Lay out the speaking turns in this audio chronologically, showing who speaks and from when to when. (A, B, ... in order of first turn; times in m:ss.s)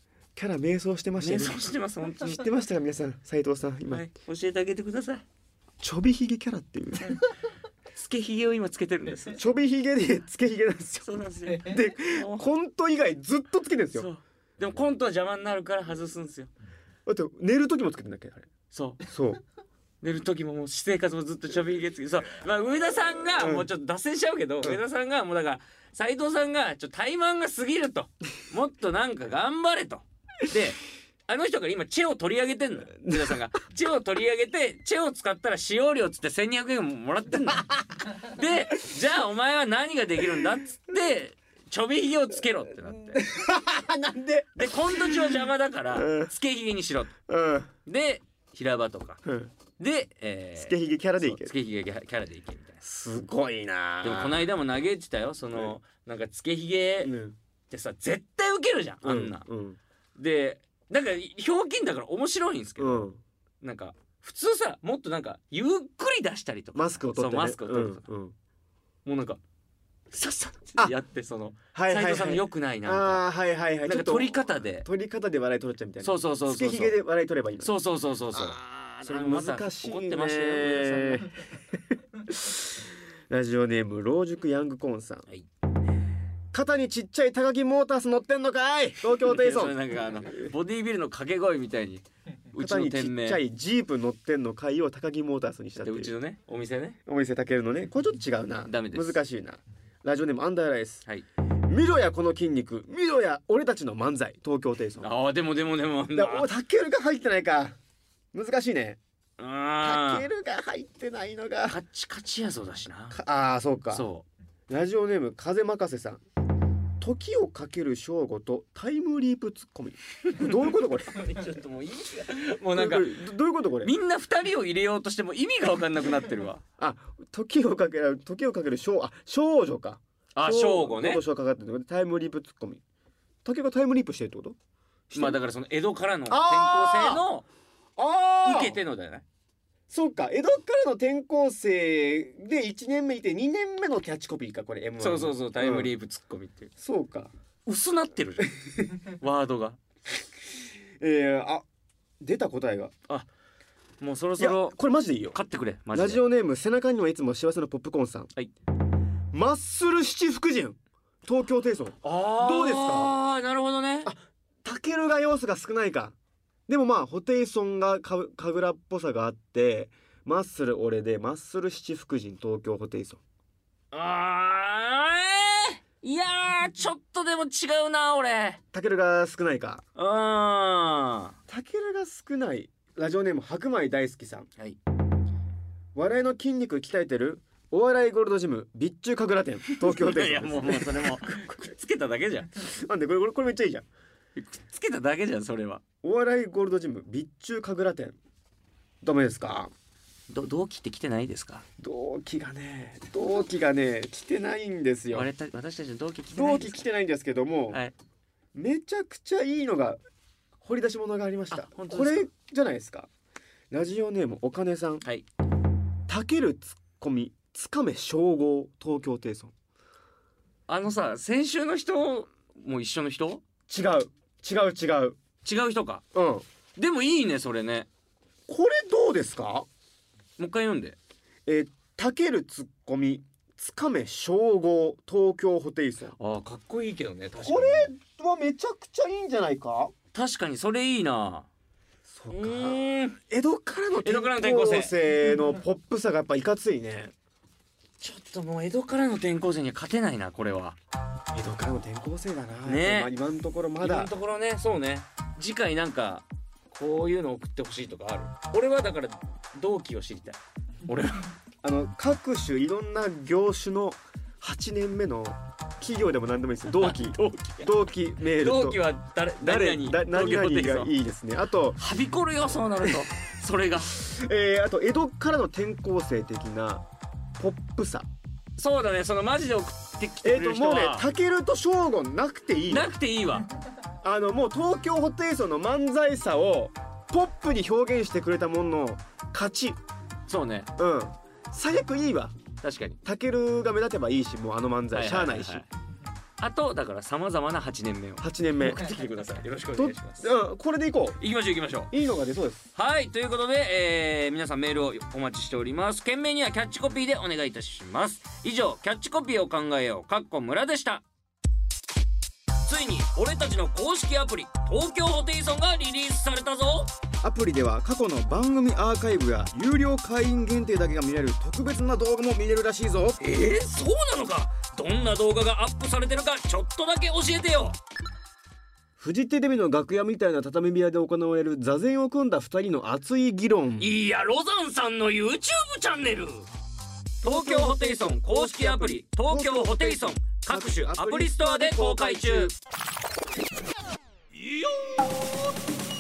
0:00.4-0:01.7 A
0:01.2-0:02.5 B
0:02.2-0:04.1 A
0:03.9-0:05.2 B
0:05.8-0:07.2 A
0:08.0-0:09.4 B
0:09.3-0:14.1 A
0:11.0-0:12.4 B
0:14.0-0:16.5 B
0:17.1-0:18.5 A
0:18.7-0:19.0 B
0:19.1-0:19.4 A
0:20.0-0:43.3 B
0:23.4-0:23.7 A
0:33.0-0:33.4 A
0:42.9-0:45.4 A
0:44.6-0:47.1 B
0:45.9-0:46.3 A
0:47.3-0:47.7 A
0:47.9-0:49.2 B
0:49.2-0:49.5 A
0:49.8-0:52.8 B
0:50.6-0:51.5 A
0:52.8-0:54.4 A
0:54.0-0:57.1 B
0:57.0-0:57.4 A
0:57.7-0:59.5 B
0:59.0-0:59.8 A
1:00.2-1:03.1 B
1:02.8-1:03.2 A
1:03.6-1:08.0 B
1:06.8-1:08.4 A
1:09.0-1:09.4 B
1:10.1-1:13.2 B
1:11.8-1:17.7 A
1:13.9-1:14.9 B
1:16.0-1:17.0 B
1:17.6-1:21.3 B
1:18.4-1:25.3 A
1:26.5-1:30.5 A
1:29.2-1:33.4 B
1:32.6-1:36.1 A
1:35.8-1:37.0 B
1:37.1-1:41.0 A
1:38.7-1:39.2 B
1:41.7-1:45.1 A
1:45.0-1:46.5 B
1:46.2-1:47.8 A
1:48.3-1:49.0 A
1:49.4-1:50.3 B
1:49.8-1:51.8 A
1:51.7-1:53.2 B
1:53.1-1:54.1 A
1:53.9-1:54.3 B
1:54.7-1:56.2 A
1:57.0-2:01.4 A
2:00.3-2:03.2 B
2:02.8-2:03.9 A
2:03.8-2:06.6 B
2:06.8-2:12.8 A
2:10.4-2:11.2 B
2:13.4-2:14.6 A
2:15.1-2:15.4 A
2:15.2-2:17.5 B
2:16.3-2:17.2 A
2:18.0-2:18.8 A
2:18.4-2:19.2 B
2:19.9-2:25.9 A
2:25.0-2:26.7 B
2:26.8-2:27.3 A
2:27.7-2:29.8 B
2:31.0-2:31.6 A
2:32.2-2:32.9 A
2:34.0-2:34.7 B
2:34.4-2:35.4 A
2:35.3-2:36.2 B
2:35.9-2:38.3 A
2:39.3-2:43.1 A
2:42.0-2:44.1 B
2:44.0-2:46.2 A
2:46.7-2:53.2 A
2:53.9-2:58.6 B
2:58.7-2:59.8 A
3:00.0-3:01.4 B
3:01.5-3:04.5 A
3:06.0-3:11.6 A
3:09.7-3:12.6 B
3:12.6-3:13.9 A
3:14.4-3:15.8 B
3:16.0-3:18.2 A
3:19.0-3:19.7 A
3:20.3-3:21.6 B
3:21.8-3:25.3 A
3:25.1-3:26.8 B
3:26.3-3:27.8 A
3:28.5-3:30.0 A
3:30.6-3:33.1 A
3:31.5-3:32.3 B
3:33.7-3:35.0 A
3:36.1-3:39.5 A
3:40.7-3:43.4 B
3:43.7-3:45.2 A
3:45.4-3:46.0 B
3:46.1-3:46.4 A
3:46.8-3:47.9 B
3:48.5-3:49.7 A
3:50.4-3:51.0 B
3:51.5-3:56.2 A
3:56.2-3:57.9 B
3:57.4-3:59.9 A
4:00.1-4:01.5 B
4:02.1-4:07.1 A
4:02.3-4:03.2 B
4:04.0-4:05.0 B
4:08.0-4:10.8 B
4:11.3-4:14.1 A
4:12.6-4:13.1 B
4:13.8-4:21.3 B
4:21.6-4:28.8 A
4:26.7-4:30.9 B
4:29.4-4:31.8 A
4:31.8-4:34.0 B
4:33.9-4:36.8 A
4:37.4-4:38.1 A
4:38.6-4:41.1 B
4:40.2-4:42.9 A
4:42.7-4:43.5 B
4:44.0-4:49.8 A
4:50.3-4:50.7 B
4:50.8-4:52.4 A
4:52.6-4:53.0 B
4:53.0-4:55.6 A
4:54.9-4:55.7 B
4:56.4-5:00.3 B
4:58.2-4:59.2 A
4:59.8-5:01.2 A
5:01.2-5:01.9 B
5:01.9-5:02.7 A
5:02.8-5:11.0 B
5:12.6-5:16.9 B
5:17.2-5:23.2 A
5:23.2-5:27.8 B
5:29.0-5:33.9 A
5:33.8-5:36.5 B
5:37.2-5:42.5 B
5:37.2-5:42.6 A
5:44.6-5:44.8 B